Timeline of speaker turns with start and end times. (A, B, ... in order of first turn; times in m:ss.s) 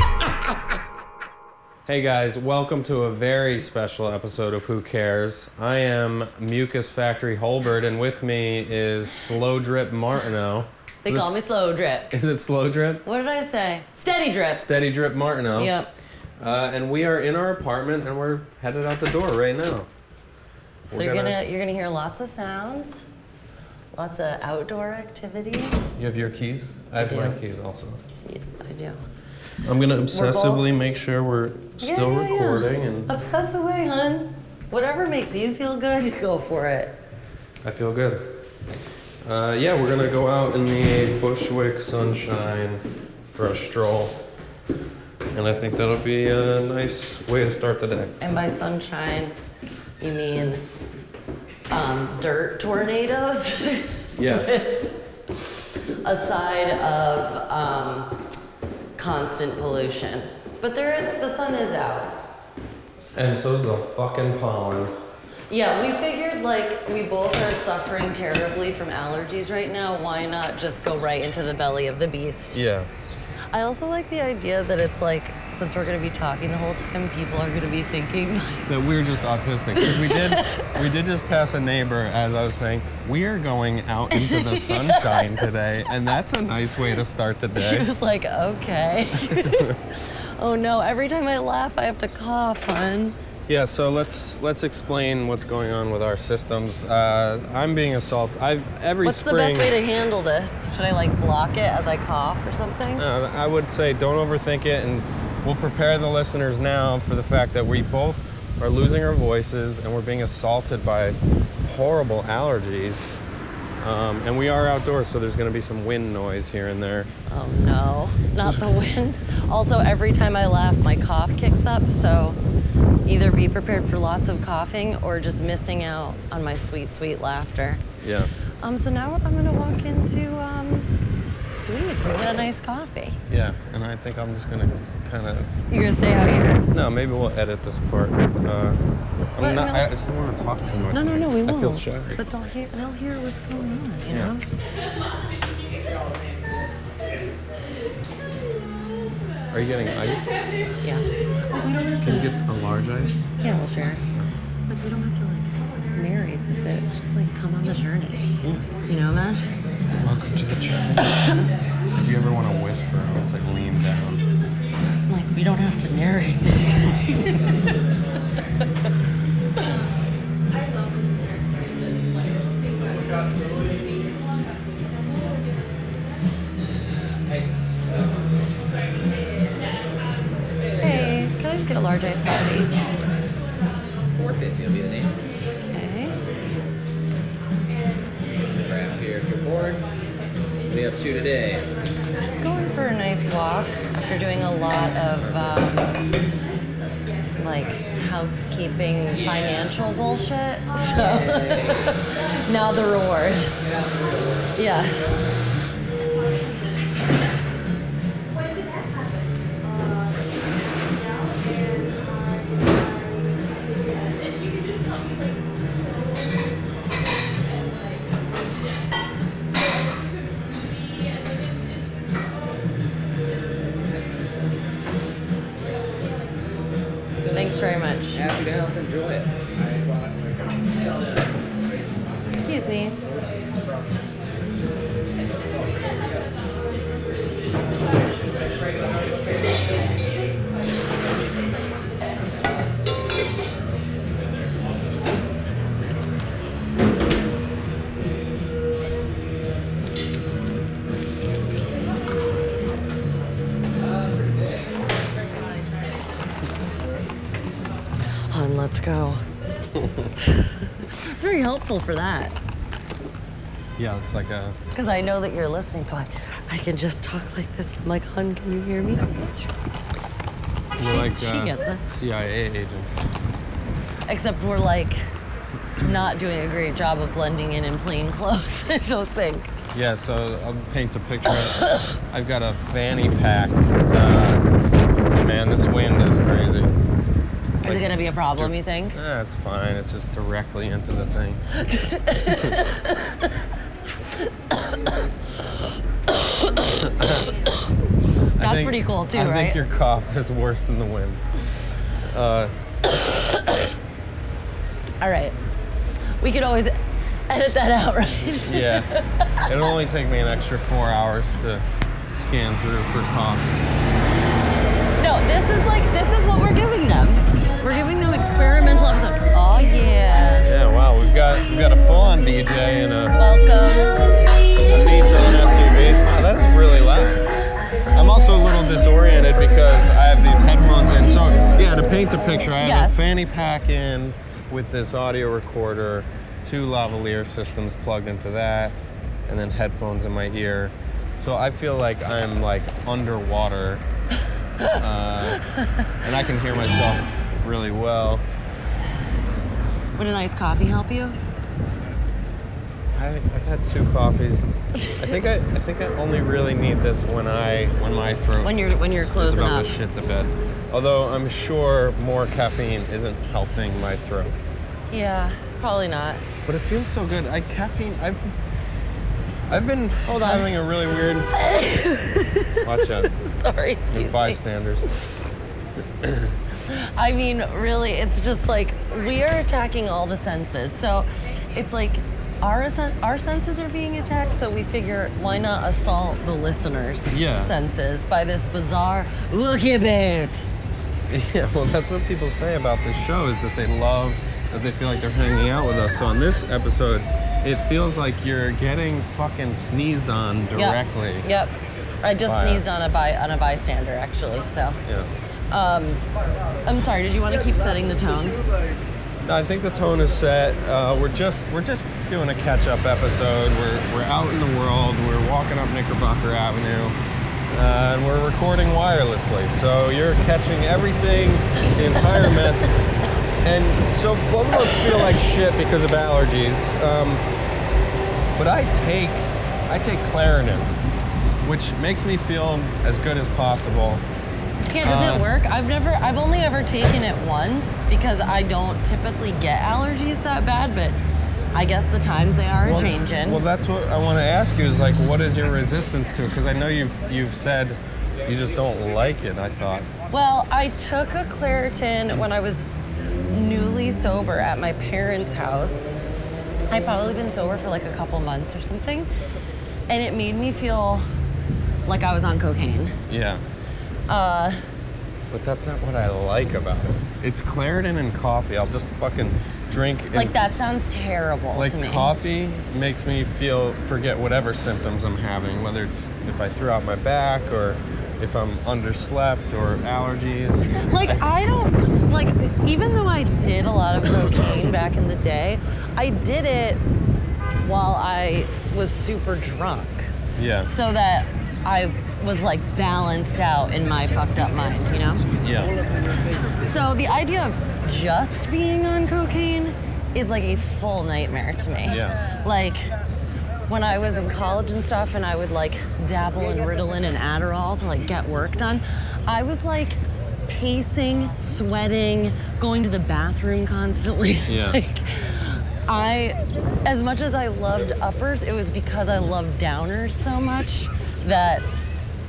0:01.8-0:11.4 A
0:11.0-0:12.2 B
0:12.1-0:13.0 A
0:13.0-0:14.7 B
0:14.5-0:15.7 A
0:15.5-0:15.9 B
0:16.4-0:19.9 A
0:20.9-0:21.4 A
0:20.9-0:23.0 B
0:23.9-0:25.8 B
0:26.0-0:28.0 A
0:27.0-0:27.4 B
0:28.2-0:29.0 B
0:29.6-0:33.1 A
0:30.1-0:30.7 B
0:31.8-0:37.0 B
0:37.6-0:38.4 A
0:39.2-0:44.2 A
0:45.3-0:48.1 A
0:48.2-0:49.3 B
0:50.0-0:50.6 B
0:51.7-0:54.9 B
0:54.1-0:54.6 A
0:56.0-0:58.2 B
0:59.0-1:02.2 B
1:03.1-1:04.9 A
1:05.5-1:12.6 B
1:12.5-1:12.9 A
1:13.5-1:18.7 B
1:18.7-1:27.9 A
1:19.8-1:20.7 B
1:24.1-1:25.4 B
1:27.6-1:33.2 B
1:29.2-1:29.8 A
1:33.5-1:39.8 A
1:39.0-1:43.0 B
1:43.0-1:53.2 A
1:53.8-1:57.1 A
1:57.3-2:02.4 B
2:03.0-2:07.8 B
2:08.0-2:08.3 A
2:08.6-2:10.9 B
2:11.6-2:13.2 B
2:13.3-2:15.5 A
2:15.7-2:16.7 B
2:16.7-2:18.8 A
2:19.4-2:22.2 A
2:19.4-2:20.0 B
2:20.9-2:24.4 B
2:24.1-2:24.4 A
2:29.5-2:30.6 A
2:30.8-2:32.4 B
2:32.0-2:33.3 A
2:33.4-2:34.0 B
2:34.7-2:39.5 B
2:38.4-2:38.7 A
2:40.0-2:44.2 A
2:41.2-2:41.5 B
2:45.1-2:47.7 B
2:57.6-2:58.2 C
3:00.8-3:02.8 B
3:04.0-3:05.2 C
3:05.6-3:06.2 B
3:08.4-3:09.9 C
3:10.6-3:11.7 C
3:12.2-3:16.0 B
3:17.3-3:23.6 B
3:21.0-3:21.9 C
3:24.5-3:25.2 B
3:47.2-3:49.4 C
3:47.3-3:48.2 B
3:52.3-3:53.0 B
4:18.2-4:19.2 B
4:19.7-4:20.1 A
4:20.2-4:22.4 B
4:23.8-4:24.6 A
4:24.7-4:29.5 B
4:30.8-4:33.0 A
4:30.9-4:31.8 B
4:34.0-4:35.1 B
4:35.8-4:39.5 B
4:39.7-4:44.4 A
4:45.2-4:46.8 A
4:47.6-4:51.4 A
4:47.6-4:49.0 B
4:51.6-4:53.4 B
4:52.2-4:52.6 A
4:54.5-4:57.6 B
4:56.6-4:57.3 A
4:58.4-5:02.5 A
4:58.4-4:59.6 B
5:02.9-5:03.7 B
5:05.0-5:05.4 B
5:06.0-5:06.8 B
5:07.3-5:09.5 B
5:08.4-5:08.9 A
5:09.4-5:13.6 A
5:15.0-5:20.5 B
5:20.4-5:23.2 A
5:23.1-5:24.4 B
5:24.7-5:27.3 A
5:27.9-5:43.8 A
5:32.6-5:33.0 B
5:44.7-5:45.4 A
5:45.5-5:45.8 B
5:46.0-5:48.2 A
5:50.0-5:51.2 B
5:52.9-6:04.3 A
5:58.4-5:59.7 B
6:04.9-6:06.2 B
6:06.4-6:08.3 A
6:09.5-6:11.3 A
6:10.1-6:10.6 B
6:11.3-6:14.4 B
6:12.6-6:13.1 A
6:13.9-6:14.9 A
6:16.0-6:16.3 A
6:16.6-6:30.5 B
6:27.1-6:27.5 A
6:31.1-6:41.3 A
6:40.5-6:44.8 B
6:42.2-6:42.8 A
6:44.8-6:45.1 A
6:45.5-6:46.0 B
6:46.6-6:48.5 B
6:49.2-6:57.0 A
6:57.5-7:02.7 A
7:03.4-7:07.2 A
7:08.4-7:10.7 A
7:11.4-7:14.0 A
7:14.7-7:21.0 B
7:14.8-7:15.3 A
7:21.5-7:23.4 B
7:22.6-7:29.9 A
7:30.1-7:32.7 B
7:33.3-7:35.9 B
7:36.7-7:39.1 B
7:39.9-7:41.1 B
7:41.8-7:43.0 B
7:43.1-7:43.4 A
7:44.1-7:44.6 B
7:45.3-7:50.3 A
7:50.1-7:52.1 B
7:51.5-8:01.2 A
8:00.8-8:06.8 B
8:04.3-8:04.6 A
8:07.6-8:15.3 B
8:10.4-8:10.7 A
8:15.4-8:15.8 A
8:16.5-8:22.9 B
8:21.9-8:22.2 A
8:23.7-8:41.6 B
8:34.5-8:34.8 A